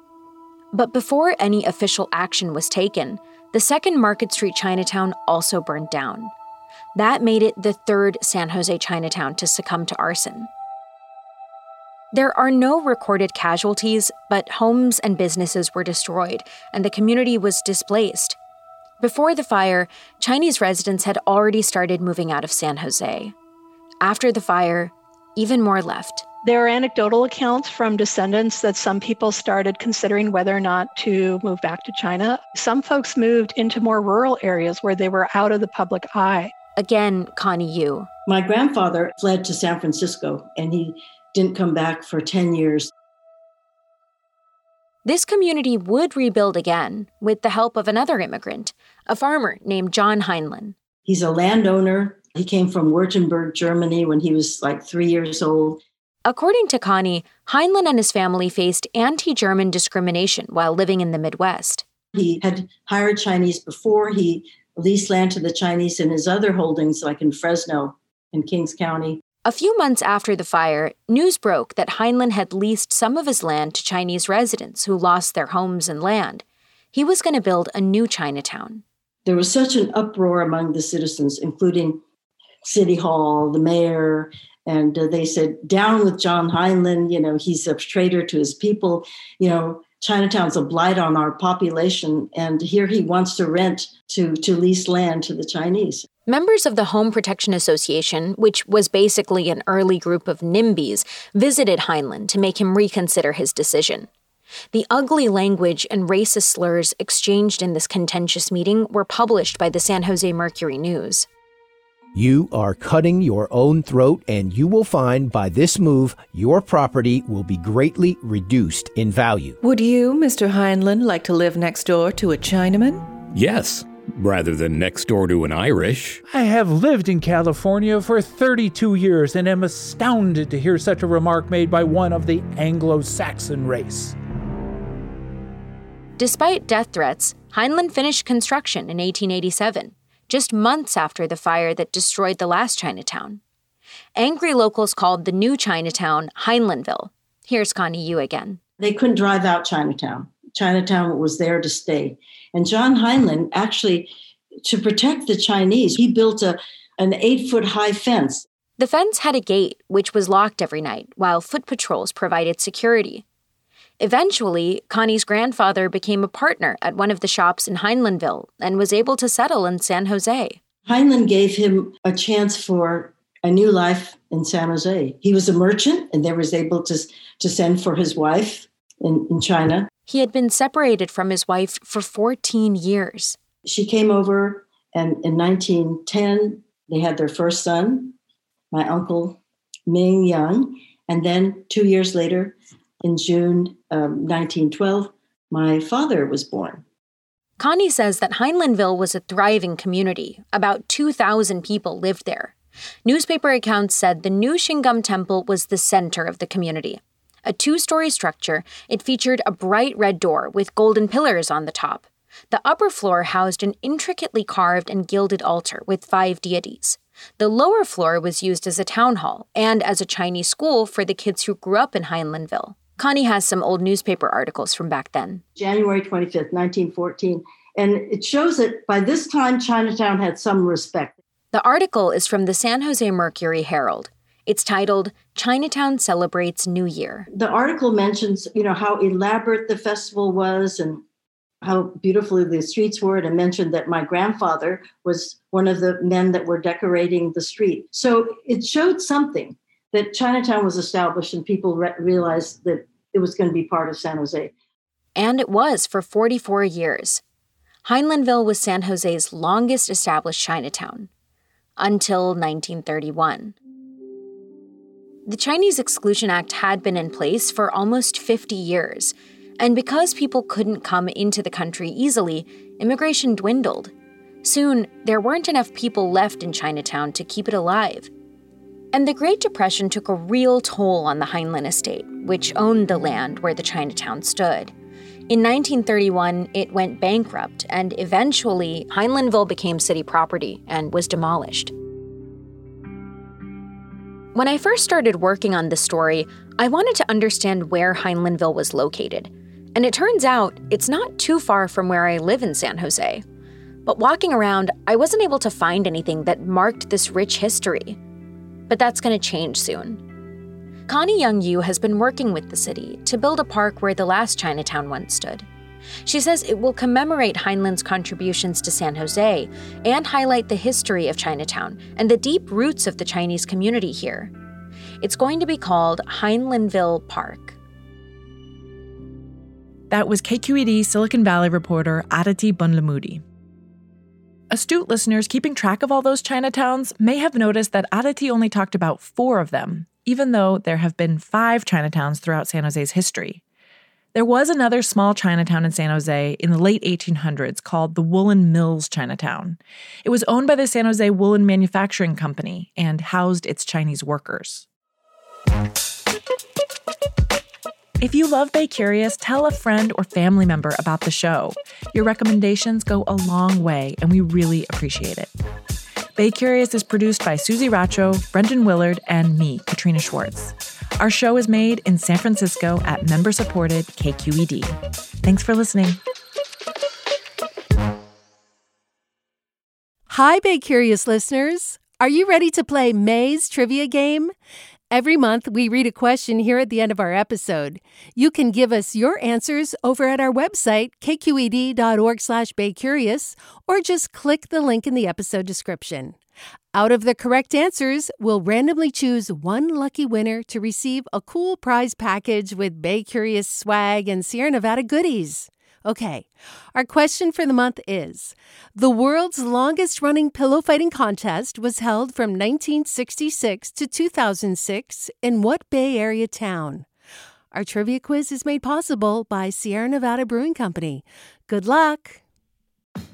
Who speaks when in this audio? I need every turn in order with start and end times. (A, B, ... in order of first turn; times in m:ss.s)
0:00.7-0:06.3 A
0:06.9-0:10.5 A
0:12.1-0:18.4 A
0:19.0-0:23.3 A
0:24.0-0:26.2 A
0:26.4-0:36.5 B
0:36.8-0:38.1 A
0:38.3-0:42.9 C
0:45.0-0:50.7 A
0:51.0-0:55.8 C
0:56.2-1:01.8 A
1:02.1-1:09.2 C
1:09.4-1:18.8 A
1:19.2-1:22.0 C
1:22.6-1:36.0 C
1:36.3-1:44.1 A
1:44.7-1:51.3 A
1:52.1-1:59.5 D
1:59.6-2:03.1 E
2:03.3-2:06.2 F
2:06.3-2:14.1 G
2:16.2-2:23.4 A
2:24.2-2:28.6 A
2:28.8-2:34.1 C
2:34.6-2:38.4 C
2:38.8-2:43.2 A
2:44.0-2:50.6 A
2:50.8-2:59.9 C
3:00.1-3:03.4 A
3:03.6-3:08.1 C
3:08.7-3:16.8 C
3:17.6-3:22.5 A
3:23.0-3:45.4 A
3:45.6-3:51.2 C
3:51.5-3:57.3 A
3:57.3-4:01.0 C
4:01.6-4:14.5 C
4:15.2-4:17.2 A
4:17.8-4:21.1 A
4:21.8-4:23.5 A
4:25.2-4:33.9 A
4:34.4-4:38.1 A
4:38.9-4:44.7 A
4:45.3-4:51.7 A
4:54.3-5:03.2 A
5:03.8-5:08.0 A
5:08.7-5:10.0 A
5:10.9-5:15.4 A
5:16.0-5:24.3 A
5:25.0-5:27.6 A
5:29.9-5:33.2 H
5:34.5-5:43.4 H
5:44.1-5:54.6 H
5:58.0-6:05.3 H
6:06.2-6:16.0 H
6:20.1-6:24.3 I
6:24.9-6:36.2 I
6:36.7-6:56.8 I
6:57.5-7:02.2 I